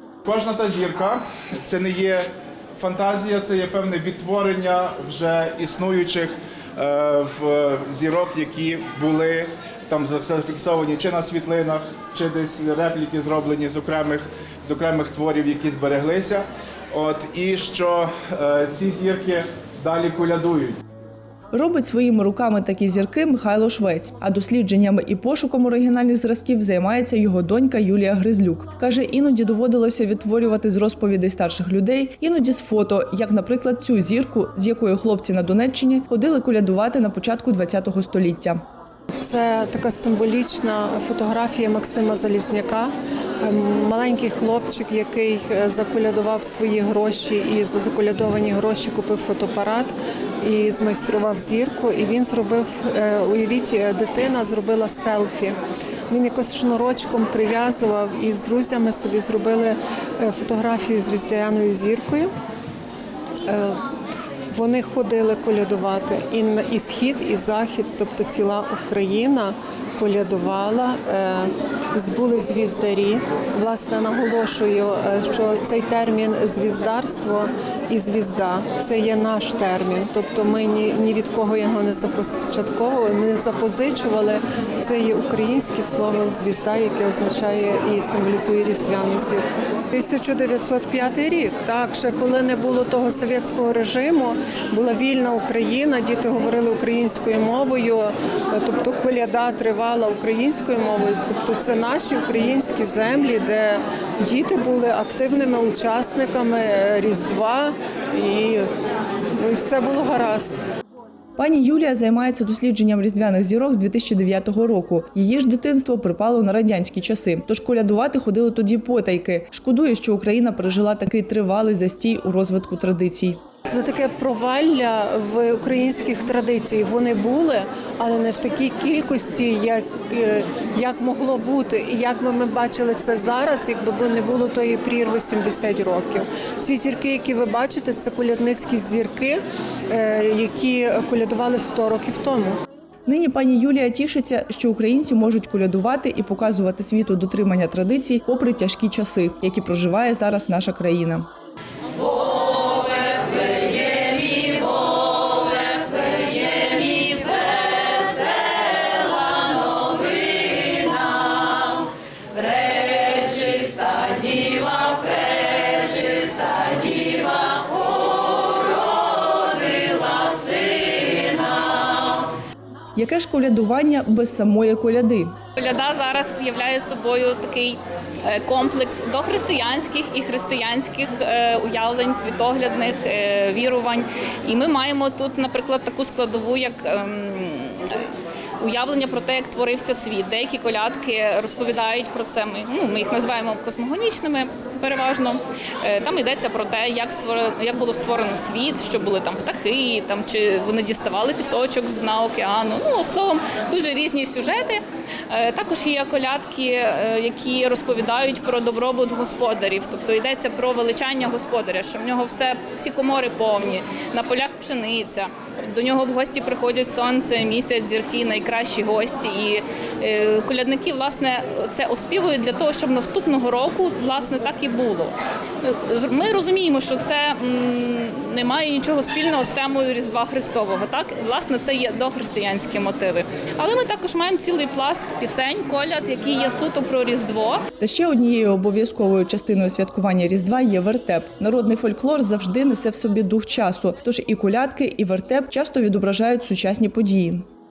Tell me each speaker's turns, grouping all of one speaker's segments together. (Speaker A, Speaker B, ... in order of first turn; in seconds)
Speaker A: 0.2-20.8
Speaker B: 21.5-38.6, 111.4-123.4, 143.1-151.3, 172.9-175.4, 237.8-247.4
Speaker C: 39.1-55.6, 56.1-62.3, 63.4-63.8, 64.5-108.7, 109.3-110.6, 123.7-142.6
Speaker D: 152.5-161.7, 162.3-171.8, 175.6-188.0, 188.6-237.6